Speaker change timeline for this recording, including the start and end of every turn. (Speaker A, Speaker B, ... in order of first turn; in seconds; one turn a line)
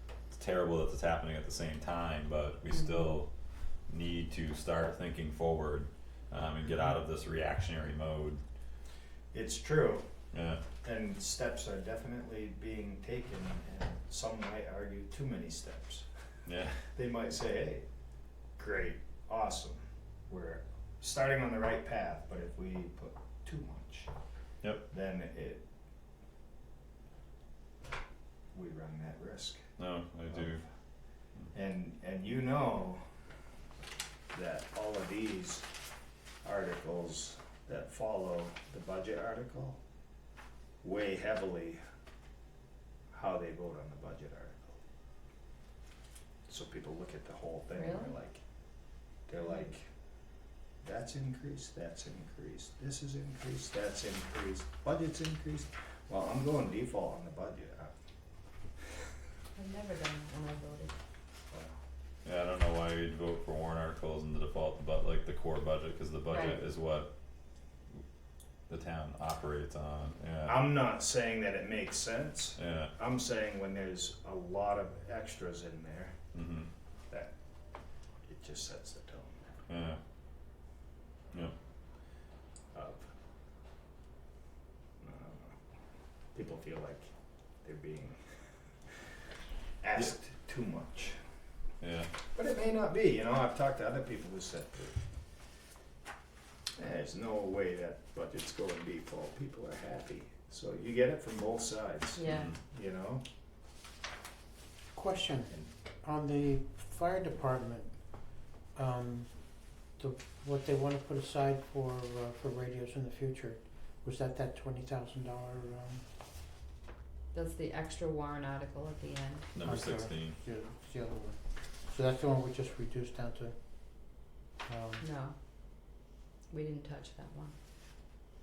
Speaker A: 0.3-3.3
Speaker B: 2.7-3.1
Speaker A: 3.9-8.4
Speaker C: 9.3-10.1
Speaker A: 10.3-10.6
Speaker C: 10.8-16.1
Speaker A: 16.4-16.9
Speaker C: 16.9-17.8
Speaker C: 18.6-24.1
Speaker C: 24.9-25.6
Speaker C: 28.5-29.6
Speaker A: 29.8-30.6
Speaker C: 30.3-30.6
Speaker C: 31.5-33.0
Speaker C: 34.3-35.7
Speaker C: 36.4-39.8
Speaker C: 40.8-41.8
Speaker C: 43.1-44.7
Speaker C: 46.5-48.4
Speaker B: 47.7-48.1
Speaker C: 49.3-49.9
Speaker C: 50.8-57.9
Speaker B: 59.5-60.9
Speaker A: 62.2-67.1
Speaker B: 66.3-66.6
Speaker A: 68.7-70.7
Speaker C: 70.4-76.2
Speaker A: 72.6-72.9
Speaker A: 76.3-76.7
Speaker C: 78.2-79.4
Speaker A: 79.7-80.0
Speaker C: 82.7-83.1
Speaker C: 85.0-85.5
Speaker C: 86.3-87.1
Speaker C: 87.6-88.2
Speaker C: 89.8-91.2
Speaker A: 91.8-92.1
Speaker C: 92.3-95.0
Speaker C: 96.8-103.2
Speaker B: 102.2-102.5
Speaker A: 102.3-102.5
Speaker D: 104.9-107.9
Speaker D: 108.7-109.3
Speaker D: 109.9-116.0
Speaker B: 117.3-119.5
Speaker A: 119.5-120.4
Speaker D: 119.6-123.5
Speaker D: 124.7-125.0
Speaker B: 125.0-125.3
Speaker B: 126.5-127.5